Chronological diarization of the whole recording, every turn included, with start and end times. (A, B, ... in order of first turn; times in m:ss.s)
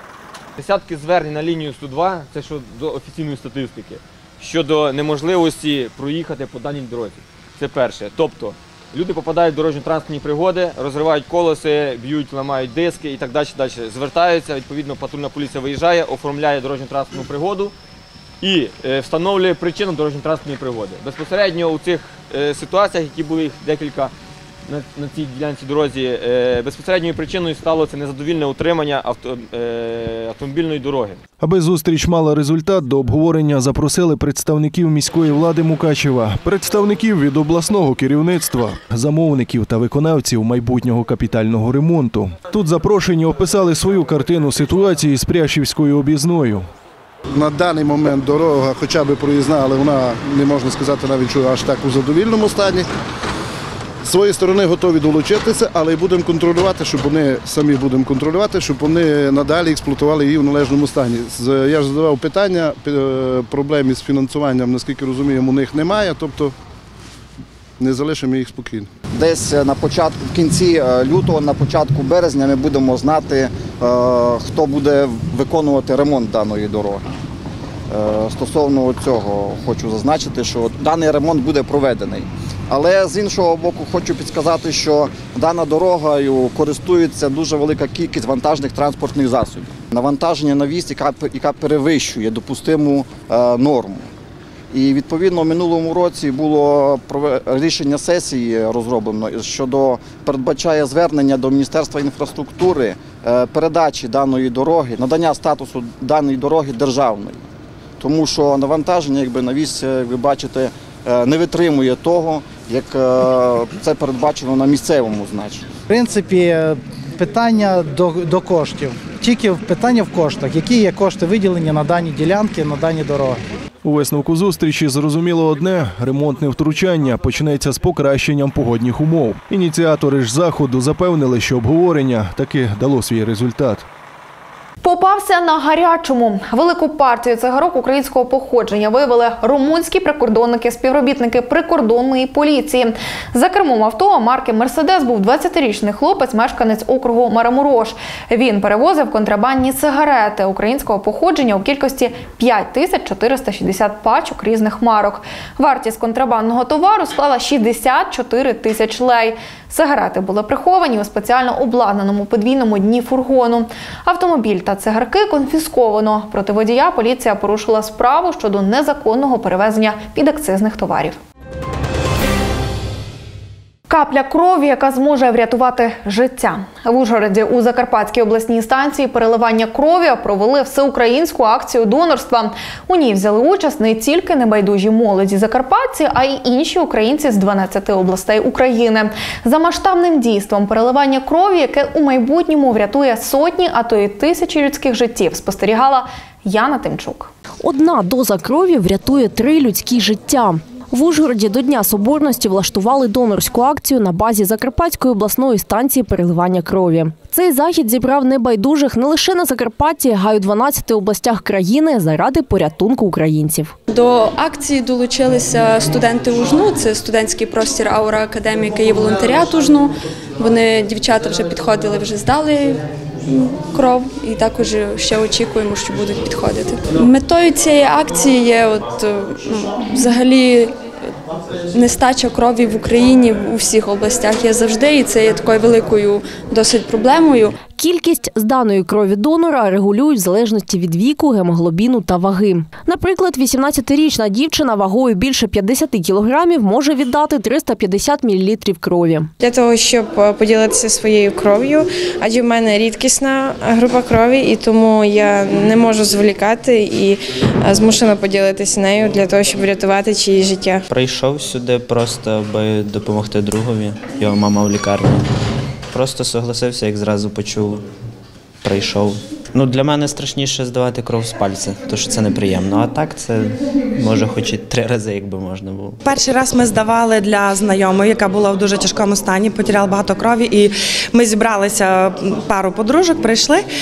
0:00.6-0:17.7 A
0:18.4-0:24.1 A
0:24.7-0:31.2 A
0:31.4-0:46.7 B
0:47.3-0:52.9 C
0:54.0-1:06.5 C
1:07.8-1:08.9 C
1:09.2-1:17.0 D
1:17.9-1:34.1 D
1:34.7-1:47.4 D
1:48.0-1:55.7 D
1:55.9-2:03.4 E
2:03.8-2:13.9 B
2:14.8-2:51.2 F
2:53.9-3:17.3 F
3:17.6-3:33.8 G
3:33.9-3:50.7 H
3:51.7-3:57.6 H
3:57.8-4:09.3 G
4:09.4-4:20.8 I
4:20.9-4:25.3 J
4:25.9-4:27.8 J
4:28.6-4:36.0 J
4:36.1-4:40.6 K
4:41.2-4:41.9 K
4:42.5-4:43.6 K